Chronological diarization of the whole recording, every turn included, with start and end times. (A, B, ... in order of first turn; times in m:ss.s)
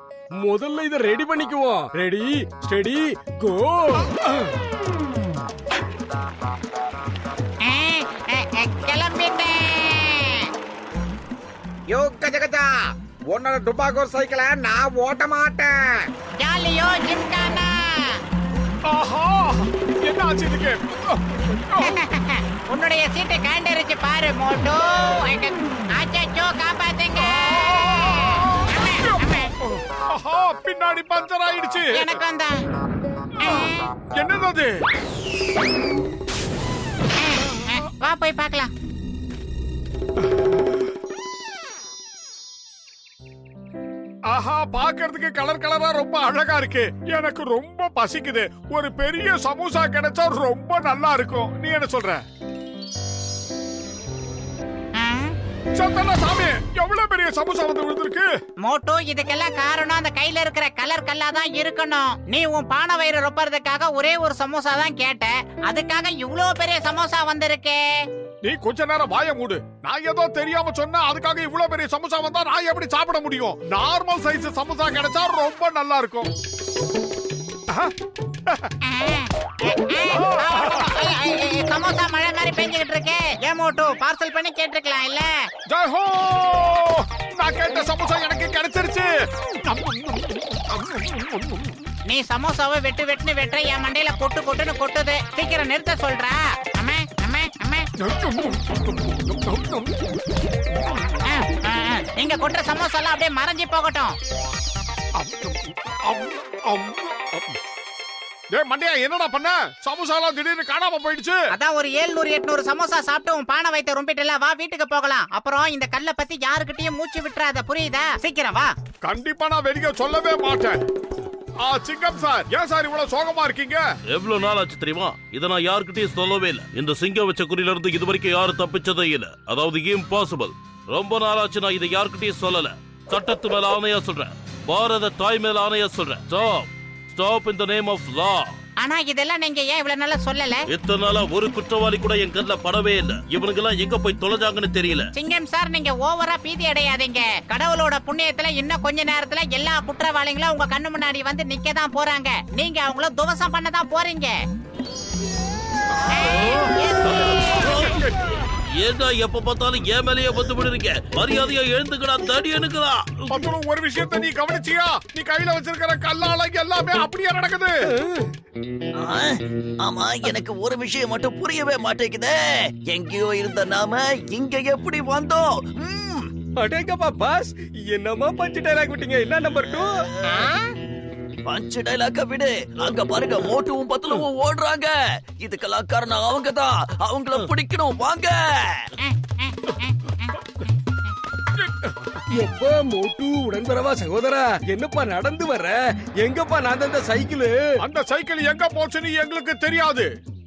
0:00.4-0:04.5 A
0:07.6-0:10.5 B
0:11.9-0:12.7 C
0:13.3-0:16.0 C
0:16.4-0:18.2 B
0:18.8-0:22.0 D
0:21.8-0:29.5 B
0:27.3-0:32.1 D
0:31.9-0:32.6 B
0:33.4-0:33.8 B
0:34.1-0:34.8 D
0:37.2-0:38.7 B
0:44.3-0:52.2 D
0:55.0-0:55.4 B
0:55.7-0:58.3 D
0:58.6-1:08.0 B
1:08.4-1:16.3 D
1:17.7-1:17.9 D
1:18.8-1:25.5 B
1:20.2-1:20.9 D
1:25.7-1:29.1 D
1:29.6-1:31.7 D
1:32.1-1:37.9 B
1:38.0-1:40.0 D
1:41.2-1:44.2 B
1:45.2-1:47.6 D
1:48.5-1:51.4 D
1:51.5-1:58.7 B
1:59.0-2:00.8 D
2:01.6-2:03.8 D
2:04.1-2:18.5 E
2:18.8-2:20.6 B
2:20.7-2:25.0 E
2:25.1-2:34.4 B
2:36.1-2:37.8 B
2:36.4-2:38.1 E
2:38.8-2:43.4 E
2:43.3-2:47.8 D
2:47.9-2:48.3 A
2:49.0-2:56.3 F
2:56.6-3:00.0 A
2:59.5-3:00.5 F
3:01.4-3:08.9 F
3:09.0-3:10.4 B
3:12.3-3:17.8 A
3:17.8-3:20.1 D